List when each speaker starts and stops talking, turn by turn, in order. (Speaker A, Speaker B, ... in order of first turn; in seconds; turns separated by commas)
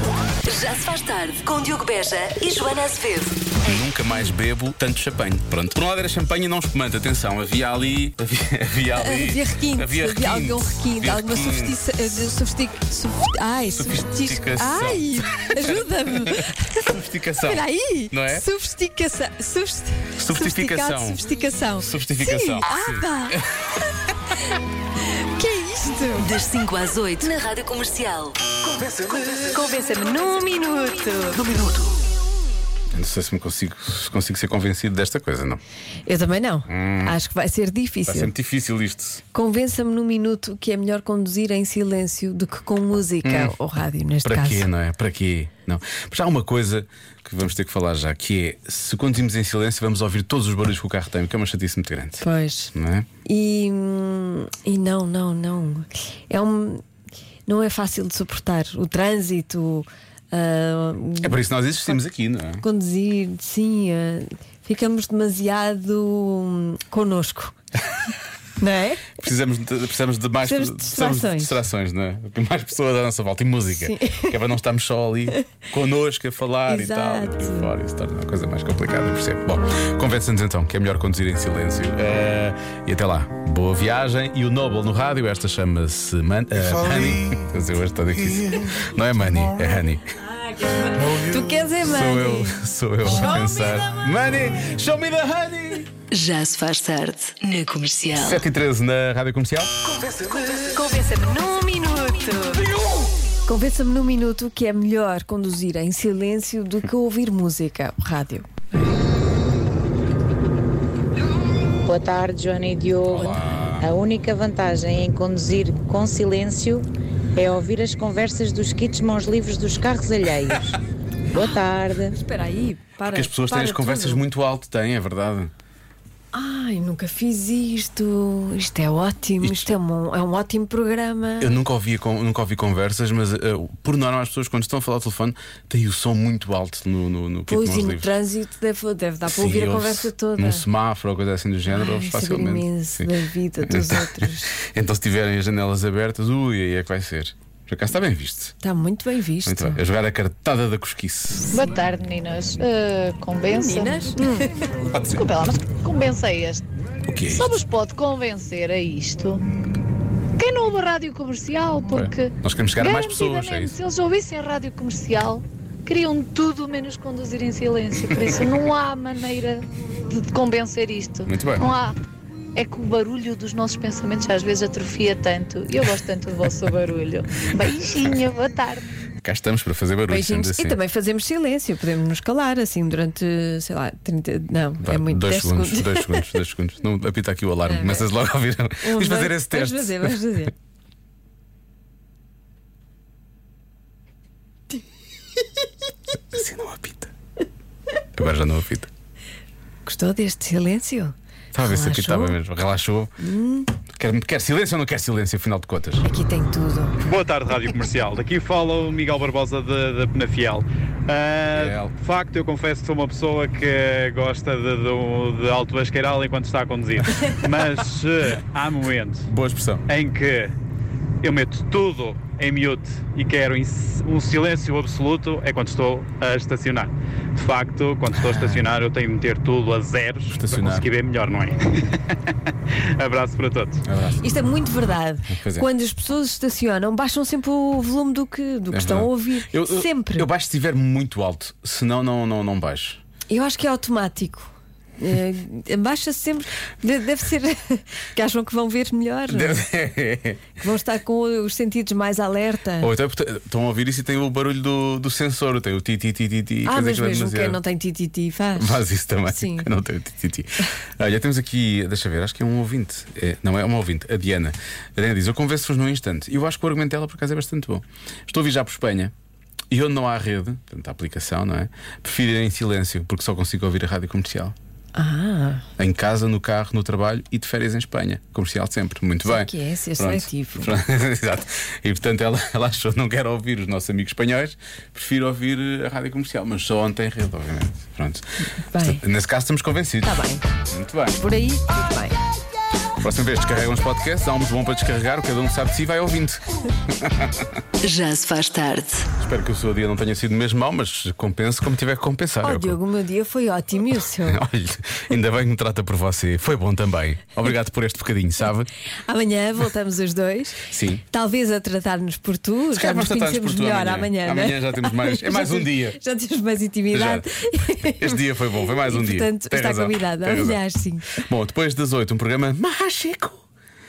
Speaker A: 0.5-3.5, Speaker B: 3.6-11.8, Speaker C: 9.0-23.4, Speaker B: 13.7-18.5, Speaker B: 20.2-21.2, Speaker B: 21.8-23.5, Speaker C: 25.2-26.3, Speaker A: 26.2-28.4, Speaker C: 29.5-31.5, Speaker B: 32.9-35.6, Speaker C: 36.1-38.3, Speaker B: 36.7-37.1, Speaker B: 38.1-39.2, Speaker C: 39.3-44.7, Speaker B: 43.2-43.5, Speaker B: 44.2-53.1, Speaker C: 52.2-52.7, Speaker C: 53.3-56.8, Speaker C: 57.5-62.0, Speaker B: 61.2-62.6, Speaker C: 62.6-67.5, Speaker C: 68.6-69.2, Speaker B: 69.2-90.1, Speaker C: 70.4-71.5, Speaker C: 73.8-74.4, Speaker C: 76.7-77.7, Speaker C: 90.5-93.9, Speaker B: 91.0-95.9, Speaker A: 96.1-98.4, Speaker B: 98.2-99.7, Speaker C: 100.6-102.7, Speaker C: 103.5-108.5, Speaker D: 111.8-120.8, Speaker B: 113.1-113.8, Speaker D: 121.3-122.2, Speaker C: 122.1-124.2, Speaker B: 123.0-125.5, Speaker C: 126.3-131.6, Speaker B: 129.4-129.7, Speaker B: 131.4-138.1, Speaker C: 137.5-140.7, Speaker B: 139.3-143.1, Speaker C: 141.7-144.5, Speaker B: 143.7-148.6, Speaker C: 148.6-149.8, Speaker B: 149.4-151.5, Speaker E: 151.5-154.5, Speaker C: 153.5-154.7, Speaker B: 154.9-155.2, Speaker E: 155.1-156.6, Speaker B: 157.1-157.6, Speaker E: 157.3-159.4, Speaker E: 160.4-172.0, Speaker B: 161.9-163.8, Speaker B: 171.3-171.7, Speaker E: 172.6-178.8, Speaker B: 179.2-180.8, Speaker C: 180.1-186.4, Speaker B: 184.8-190.2, Speaker C: 187.7-188.1, Speaker C: 188.8-190.5, Speaker B: 196.3-197.1, Speaker B: 198.2-198.9, Speaker C: 199.9-202.4, Speaker B: 201.5-203.1, Speaker C: 203.2-203.7, Speaker B: 203.9-206.1, Speaker C: 206.0-207.0, Speaker F: 207.0-219.3, Speaker B: 211.5-211.9, Speaker B: 219.3-219.8, Speaker F: 219.9-220.6, Speaker F: 221.2-232.0, Speaker B: 228.1-228.7, Speaker B: 230.3-230.9, Speaker F: 233.0-233.8, Speaker B: 233.8-234.2, Speaker C: 234.2-240.3, Speaker B: 235.3-235.7, Speaker B: 238.7-243.0, Speaker C: 243.3-249.7, Speaker B: 249.3-250.5, Speaker C: 250.6-252.9, Speaker B: 252.8-257.6, Speaker C: 256.7-259.7, Speaker B: 258.6-269.1, Speaker B: 269.7-274.6, Speaker C: 275.0-275.6, Speaker B: 275.8-288.3, Speaker C: 279.2-280.7, Speaker C: 288.7-289.0, Speaker B: 288.8-291.2, Speaker C: 290.0-290.5, Speaker C: 291.2-292.2, Speaker B: 293.0-297.5, Speaker A: 297.8-299.1, Speaker B: 299.2-302.8, Speaker C: 302.4-304.4, Speaker B: 304.3-308.7, Speaker C: 309.1-321.2, Speaker B: 310.7-311.0, Speaker B: 312.7-316.0, Speaker B: 316.9-317.3, Speaker B: 317.8-320.6, Speaker B: 321.1-323.4